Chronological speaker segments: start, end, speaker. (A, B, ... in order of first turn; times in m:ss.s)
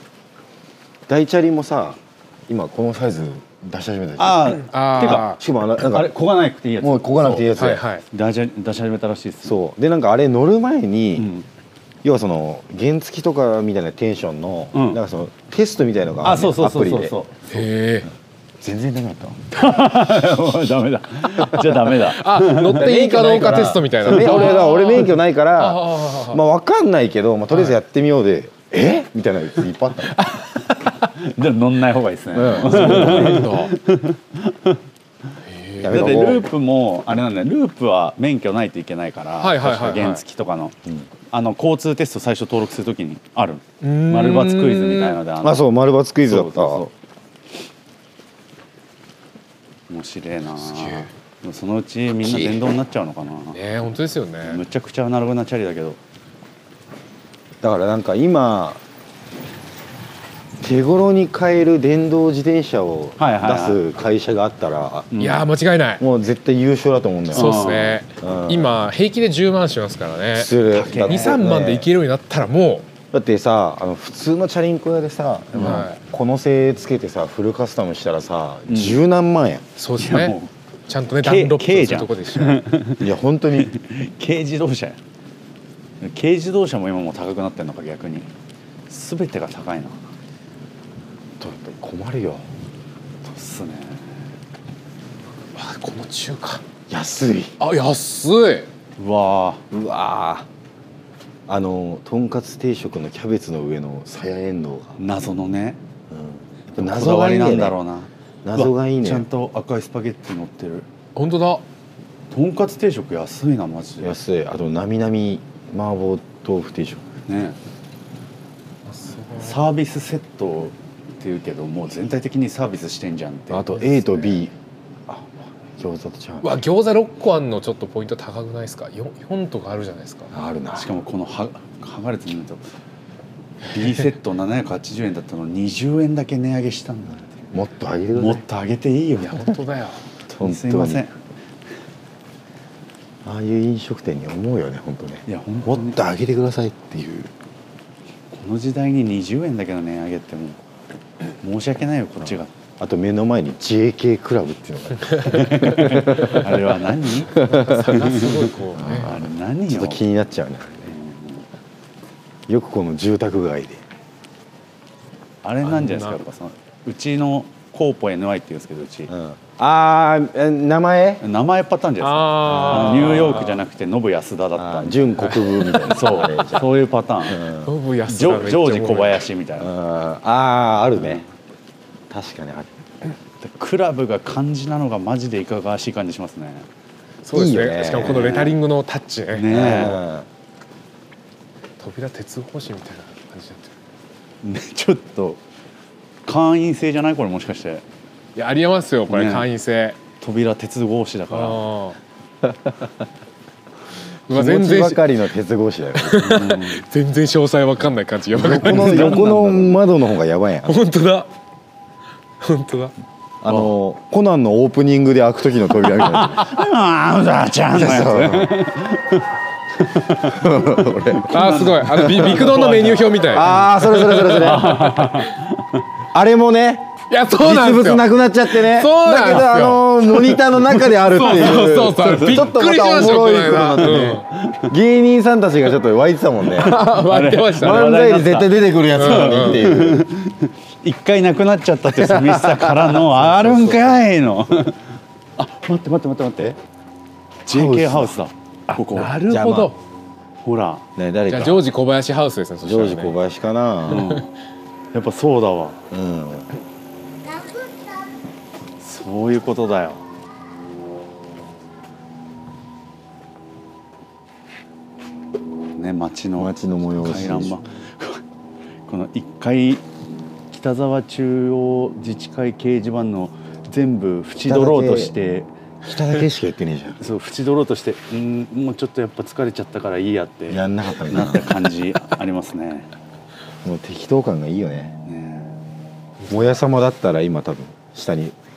0:01.1-0:06.1 A
0:04.2-0:07.5 B
0:04.5-0:05.4 C
0:06.8-0:07.8 A
0:07.5-0:08.0 C
0:08.1-0:09.6 B
0:09.4-0:11.3 A
0:11.2-0:11.4 B
0:12.0-0:17.1 A
0:14.7-0:15.0 B
0:16.2-0:17.6 B
0:17.5-0:18.1 C
0:18.6-0:19.5 A
0:19.5-0:22.9 B
0:21.9-0:26.4 C
0:22.7-0:30.2 A
0:24.1-0:24.5 B
0:30.3-0:34.8 B
0:32.3-0:33.5 A
0:32.6-0:33.7 C
0:35.5-0:36.2 C
0:35.8-0:36.4 A
0:35.9-0:40.8 B
0:39.4-0:40.2 C
0:41.3-0:45.6 B
0:43.8-0:45.2 C
0:45.4-0:46.8 A
0:46.2-0:46.9 B
0:49.9-0:53.6 B
0:50.6-0:51.1 C
0:52.2-0:52.6 A
0:53.5-0:54.6 C
0:54.4-0:56.0 B
0:57.6-0:58.8 A
1:00.6-1:05.1 A
1:03.2-1:03.8 B
1:05.1-1:05.4 B
1:05.2-1:06.0 C
1:06.0-1:08.8 A
1:07.3-1:12.9 C
1:07.3-1:08.0 B
1:10.3-1:11.9 A
1:10.7-1:11.4 B
1:13.1-1:19.6 A
1:15.5-1:15.9 B
1:15.6-1:16.0 C
1:18.7-1:19.0 B
1:19.8-1:20.4 C
1:20.0-1:20.5 B
1:20.9-1:22.7 C
1:21.2-1:25.0 B
1:23.0-1:23.7 A
1:26.0-1:28.3 B
1:28.9-1:30.0 B
1:31.4-1:32.4 A
1:33.2-1:34.3 B
1:35.5-1:36.6 C
1:36.9-1:37.6 A
1:37.6-1:38.7 C
1:39.0-1:39.6 B
1:39.7-1:40.5 A
1:41.5-1:45.0 A
1:45.0-1:45.8 B
1:46.1-1:47.8 A
1:46.8-1:50.9 B
1:48.4-1:49.2 A
1:51.2-1:51.6 C
1:52.3-1:54.2 B
1:54.0-1:57.1 A
1:57.3-1:57.6 B
1:58.9-1:59.6 C
1:59.4-2:03.8 B
2:03.5-2:04.5 A
2:03.8-2:04.4 C
2:05.1-2:06.6 A
2:06.4-2:10.3 C
2:10.3-2:11.0 A
2:10.7-2:12.6 B
2:13.7-2:17.3 B
2:17.5-2:18.4 A
2:18.1-2:19.5 B
2:19.2-2:20.0 C
2:20.3-2:21.1 B
2:20.4-2:21.0 A
2:23.2-2:27.3 A
2:25.2-2:26.0 B
2:28.3-2:30.6 B
2:31.4-2:32.5 B
2:32.8-2:36.4 A
2:35.2-2:40.0 B
2:37.3-2:39.1 C
2:37.3-2:38.0 A
2:38.7-2:40.9 A
2:40.9-2:41.4 B
2:42.5-2:43.8 A
2:45.4-2:49.1 B
2:45.7-2:46.2 C
2:49.1-2:51.2 A
2:51.2-2:55.1 B
2:52.0-2:53.6 C
2:52.4-2:53.4 A
2:54.6-2:56.6 A
2:55.2-2:55.9 C
2:55.8-2:57.4 B
2:57.3-2:57.7 A
2:57.5-2:59.2 C
2:58.1-2:59.7 B
2:59.6-3:01.2 A
3:01.0-3:01.2 B
3:02.1-3:02.7 A
3:03.4-3:06.7 B
3:07.2-3:10.0 C
3:07.3-3:08.5 A
3:08.0-3:08.5 B
3:09.3-3:10.0 B
3:09.5-3:10.3 A
3:11.8-3:13.7 C
3:14.4-3:15.4 B
3:16.3-3:17.8 B
3:18.4-3:20.0 C
3:19.1-3:19.4 B
3:20.2-3:21.6 B
3:21.3-3:22.0 C
3:24.3-3:25.1 C
3:24.3-3:26.4 A
3:26.0-3:29.7 C
3:26.2-3:26.8 B
3:28.3-3:30.8 A
3:28.4-3:29.7 B
3:30.6-3:31.3 C
3:32.4-3:32.9 C
3:33.4-3:36.6 A
3:36.0-3:39.2 B
3:37.7-3:38.6 A
3:39.8-3:45.8 B
3:40.2-3:41.4 A
3:41.3-3:45.3 C
3:43.3-3:44.9 A
3:46.1-3:56.8 A
3:47.1-3:54.2 C
3:50.7-3:52.5 B
3:54.3-3:54.7 B
3:56.5-3:58.1 C
3:56.5-4:06.6 B
3:57.6-4:00.0 A
3:58.9-3:59.8 C
4:02.1-4:02.7 A
4:03.1-4:04.0 C
4:07.4-4:09.2 B
4:07.5-4:08.1 A
4:08.9-4:09.8 C
4:09.2-4:09.7 A
4:10.4-4:10.8 B
4:11.0-4:11.6 A
4:11.3-4:13.2 C
4:12.6-4:14.1 A
4:13.9-4:14.3 B
4:13.9-4:14.2 C
4:14.9-4:15.8 B
4:15.9-4:16.5 A
4:18.8-4:20.0 B
4:25.8-4:28.2 B
4:26.4-4:27.5 A
4:28.9-4:29.8 B
4:30.5-4:35.5 B
4:34.4-4:35.1 A
4:35.8-4:37.0 A
4:37.0-4:42.9 B
4:40.5-4:41.6 A
4:43.6-4:44.9 A
4:45.0-4:45.6 B
4:46.3-4:48.3 A